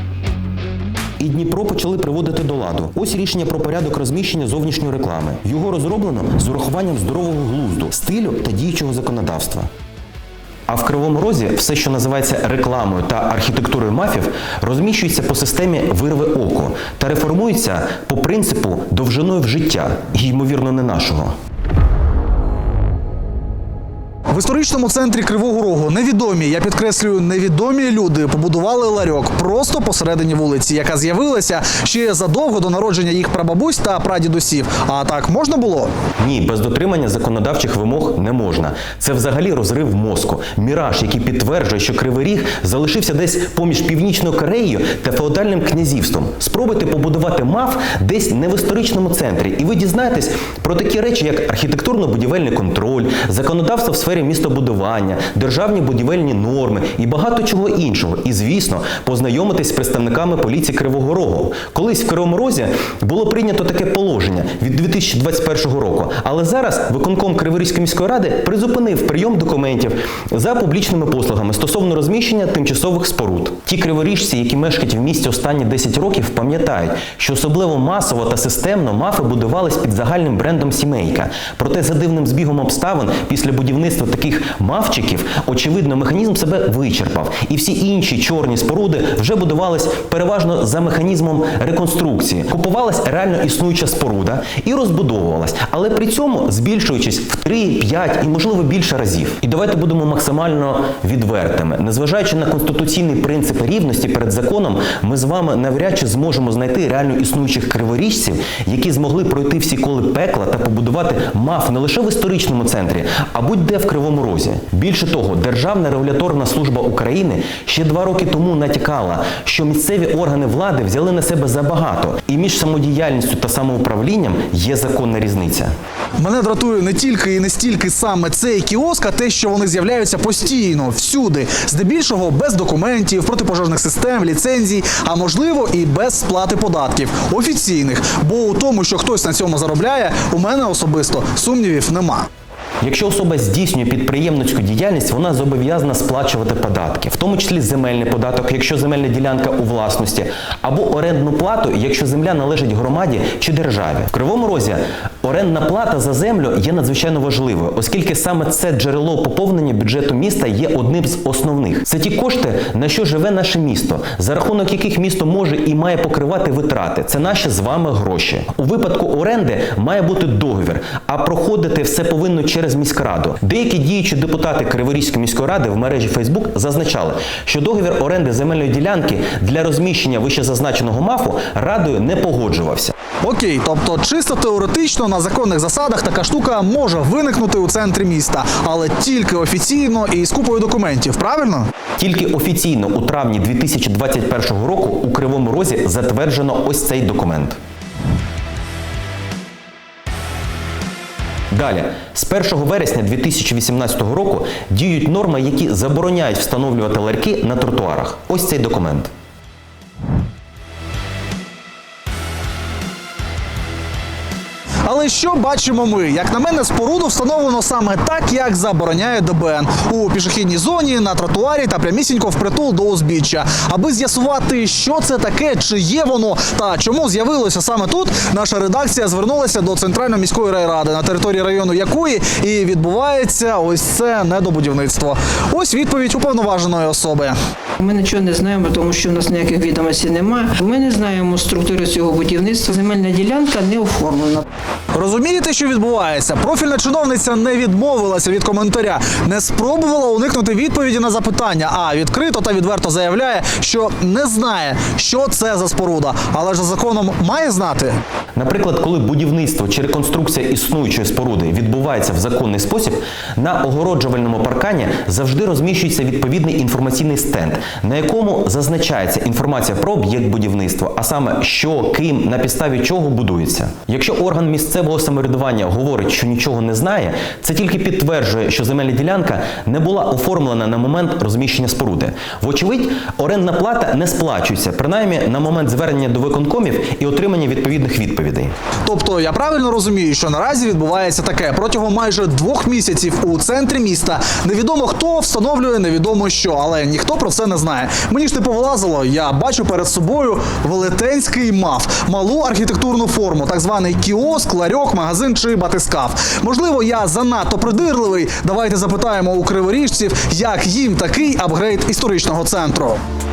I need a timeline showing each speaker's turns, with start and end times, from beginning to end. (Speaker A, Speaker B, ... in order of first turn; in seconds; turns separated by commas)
Speaker A: 1.2-9.7, Speaker A: 10.7-21.3, Speaker B: 24.3-35.9, Speaker A: 36.2-125.7, Speaker B: 126.2-142.3, Speaker A: 142.8-182.9, Speaker B: 183.2-191.7, Speaker A: 192.0-197.6, Speaker A: 201.5-209.1, Speaker B: 214.8-237.4, Speaker C: 237.8-244.4, Speaker B: 244.9-258.0, Speaker A: 258.4-288.5, Speaker B: 288.9-313.0